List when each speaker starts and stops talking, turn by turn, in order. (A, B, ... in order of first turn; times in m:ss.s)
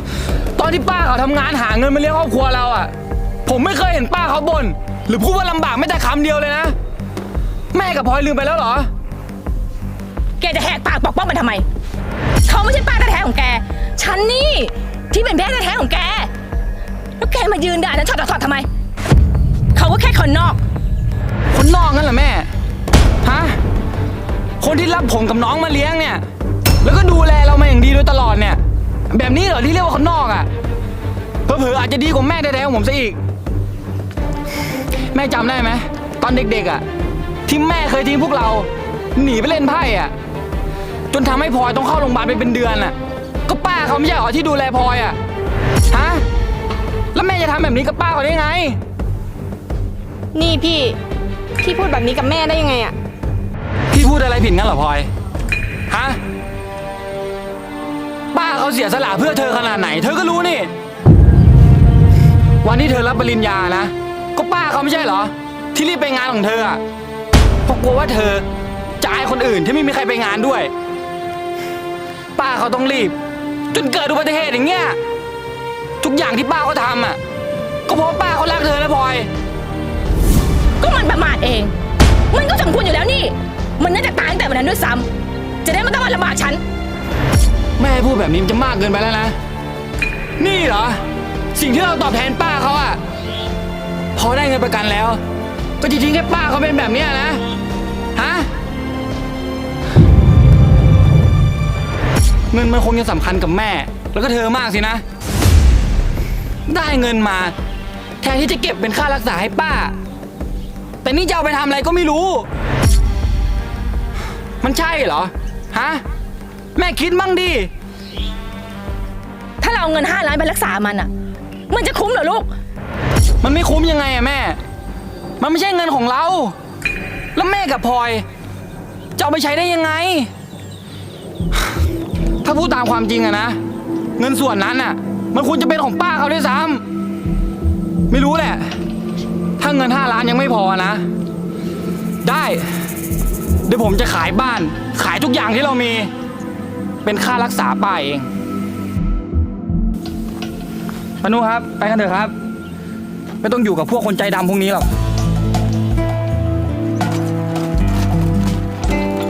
0:00.6-0:02.9 A
0:03.5-0:06.8 A
0:07.7-0:08.9 A
0:10.4-0:11.6 B
0:12.5-0:16.3 B
0:17.2-0:18.7 B
0:19.7-0:20.6 B
0:21.5-0:22.5 A
0:23.2-0:23.6 A
0:24.6-0:26.2 A
0:26.8-0:30.5 A
0:31.5-0:33.2 A
0:35.1-0:36.8 A
0:37.5-0:40.1 A
0:41.1-0:43.0 A
0:43.5-0:45.2 A
0:45.9-0:46.2 A
0:47.1-0:48.8 A
0:50.3-0:51.0 C
0:51.6-0:53.0 C
0:53.9-0:55.1 A
0:55.9-0:56.2 A
0:58.3-1:00.7 A
1:02.6-1:06.8 A
1:07.7-1:08.4 A
1:09.0-1:10.7 A
1:12.4-1:13.2 A
1:13.7-1:15.0 A
1:16.0-1:17.2 A
1:17.9-1:19.3 A
1:20.8-1:21.7 B
1:22.3-1:25.1 B
1:25.6-1:26.6 B
1:27.8-1:29.4 A
1:30.4-1:31.0 A
1:31.5-1:33.0 A
1:34.2-1:35.2 A
1:35.8-1:37.4 A
1:38.2-1:38.5 A
1:42.5-1:45.0 A
1:46.7-1:47.5 A
1:48.2-1:50.0 A
1:51.0-1:52.5 A
1:54.6-1:56.0 A
1:56.8-1:57.7 A
1:59.6-2:01.1 B
2:01.7-2:02.5 B
2:03.4-2:04.6 A
2:05.4-2:06.6 A
2:07.4-2:08.2 A
2:09.2-2:10.3 A
2:12.4-2:13.6 A
2:14.2-2:16.8 A
2:18.1-2:18.7 A
2:19.6-2:21.0 A
2:22.2-2:22.7 A
2:23.7-2:26.1 A
2:27.0-2:28.3 A
2:31.2-2:32.3 A
2:33.4-2:34.9 A